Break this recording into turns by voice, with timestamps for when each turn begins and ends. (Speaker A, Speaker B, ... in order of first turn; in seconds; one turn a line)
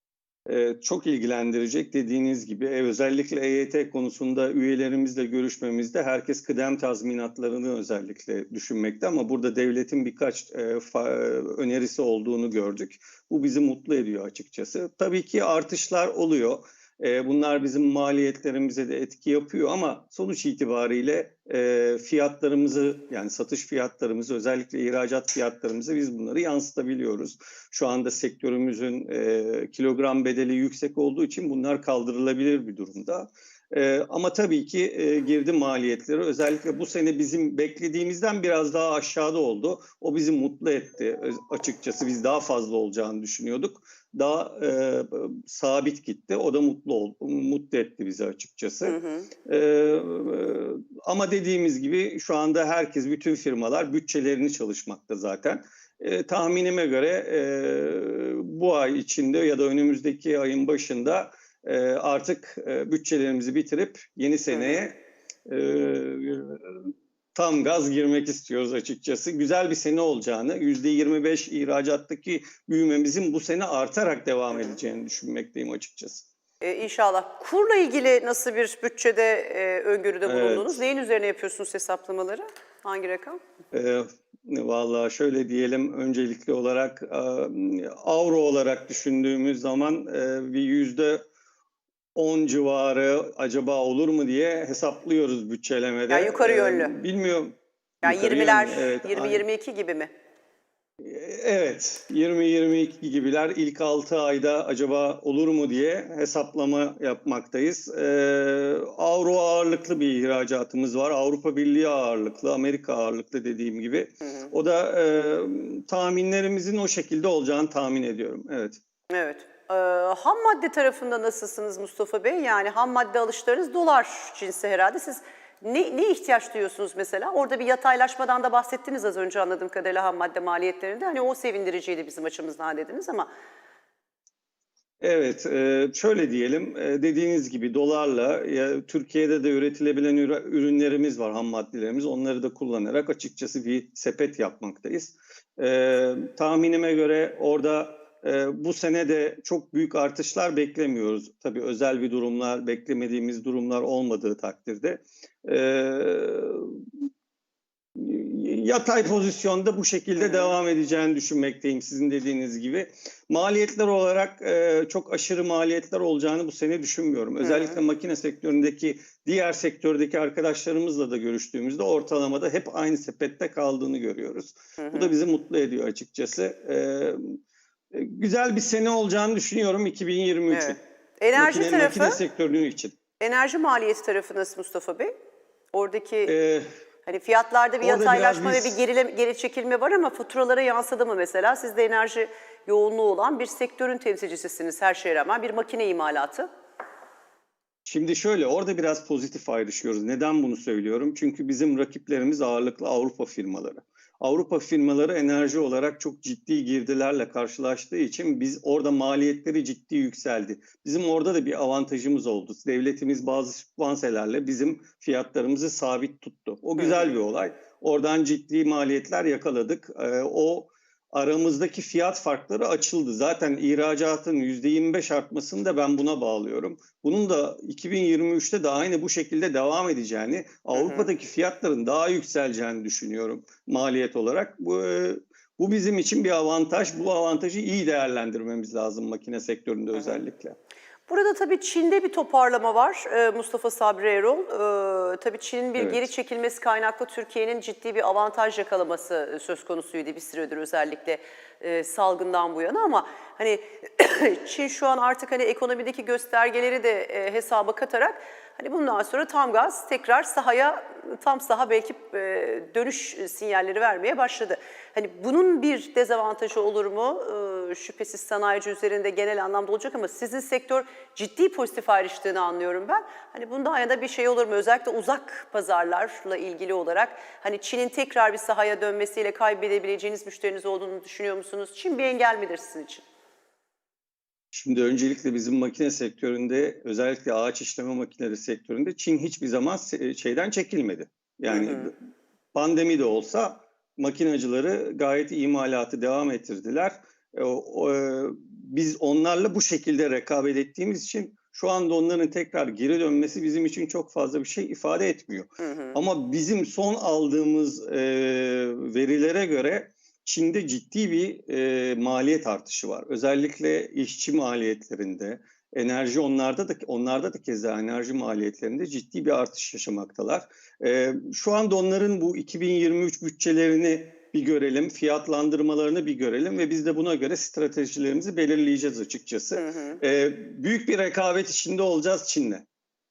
Speaker A: 0.5-76.3
Speaker B: 48.9-49.3
Speaker B: 64.5-64.9
Speaker B: 76.6-83.4
Speaker A: 80.3-80.8
Speaker A: 83.7-91.2
Speaker A: 92.2-99.5
Speaker B: 96.1-96.9
Speaker B: 98.0-100.1
Speaker A: 101.0-118.8
Speaker B: 119.1-133.3
Speaker A: 135.0-156.8
Speaker A: 157.9-177.4
Speaker B: 160.2-160.5
Speaker B: 167.4-167.8
Speaker B: 174.8-175.1
Speaker A: 177.9-180.8
Speaker B: 180.5-182.2
Speaker A: 181.3-183.0
Speaker B: 183.2-185.1
Speaker B: 185.7-186.3
Speaker A: 186.3-186.7
Speaker B: 187.1-196.5
Speaker A: 187.8-188.8
Speaker A: 197.8-240.6
Speaker B: 230.8-231.1
Speaker B: 239.9-240.2
Speaker B: 241.1-283.0
Speaker A: 245.8-246.1
Speaker A: 284.5-291.9
Speaker B: 291.5-291.9
Speaker A: 292.5-332.7
Speaker B: 305.6-306.0
Speaker B: 329.6-330.0